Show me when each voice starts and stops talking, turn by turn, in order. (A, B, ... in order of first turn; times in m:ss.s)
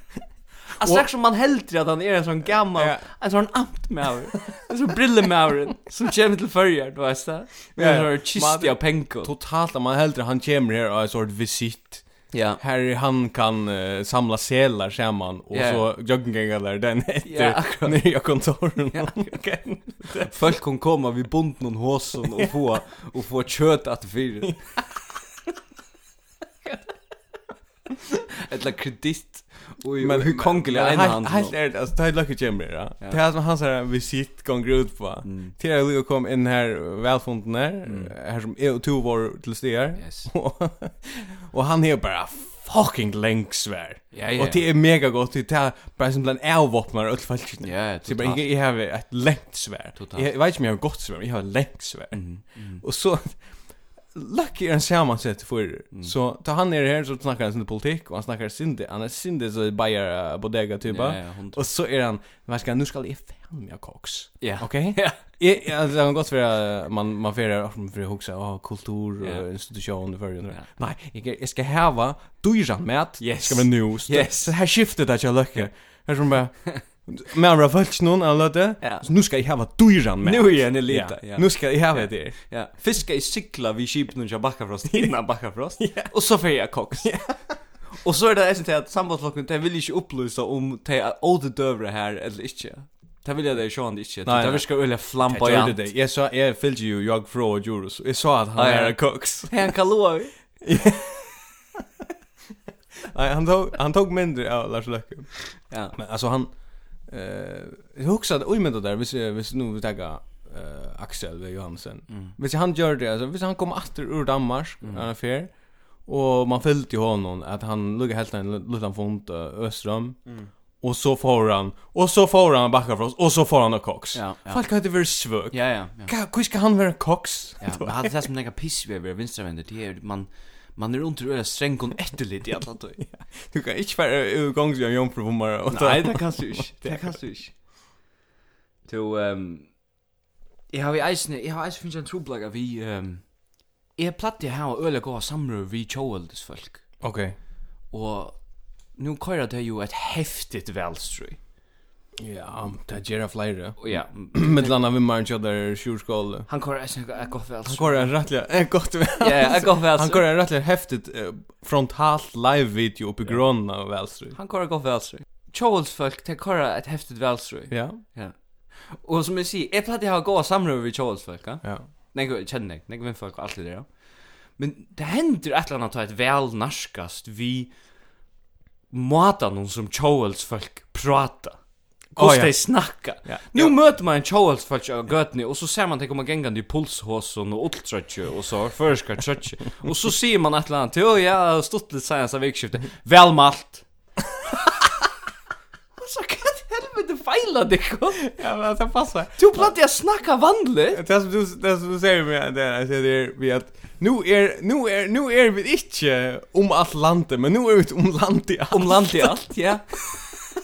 0:00.7-0:09.3 A
0:00.8-0:01.0 B
0:02.7-0:03.1 B
0:07.8-0:20.3 B
0:12.3-0:12.6 A
0:15.5-0:15.9 A
0:17.2-0:18.1 A
0:18.9-0:19.4 A
0:20.1-0:24.6 A
0:28.4-0:31.5 A
0:30.0-0:53.5 B
0:35.2-0:35.5 A
0:37.8-0:38.1 A
0:40.0-0:40.3 A
0:44.1-0:44.6 A
0:47.6-0:48.4 A
0:50.0-0:50.3 A
0:52.1-0:52.8 A
0:54.0-1:22.4 B
1:00.8-1:01.6 A
1:04.4-1:05.2 A
1:13.2-1:14.5 A
1:18.8-1:19.0 A
1:20.2-1:27.2 A
1:25.8-1:26.1 B
1:27.0-1:27.6 B
1:27.9-1:35.8 A
1:34.2-1:39.7 B
1:38.6-1:40.3 A
1:40.6-1:41.4 B
1:43.1-1:46.5 B
1:45.5-1:45.9 A
1:47.0-2:00.3 B
1:52.1-1:52.3 A
1:54.8-1:55.1 A
2:00.8-2:08.1 B
2:04.1-2:04.7 A
2:05.5-2:06.1 A
2:07.6-2:13.0 A
2:13.0-2:17.2 B
2:15.7-2:17.5 A
2:18.8-2:19.8 A
2:20.7-2:23.3 A
2:23.9-2:26.8 A
2:27.0-2:27.4 B
2:27.9-2:28.4 A
2:29.0-2:31.4 A
2:32.2-2:36.5 B
2:33.8-2:34.8 A
2:36.5-2:38.1 A
2:37.6-2:44.4 B
2:39.2-2:40.2 A
2:44.3-2:57.7 A
2:47.7-2:48.0 B
2:58.9-3:01.6 A
3:02.1-3:13.8 A
3:02.2-3:03.8 B
3:16.0-3:18.3 A
3:18.2-3:19.7 B
3:19.4-3:21.0 A
3:20.9-3:29.3 B
3:28.7-3:30.0 A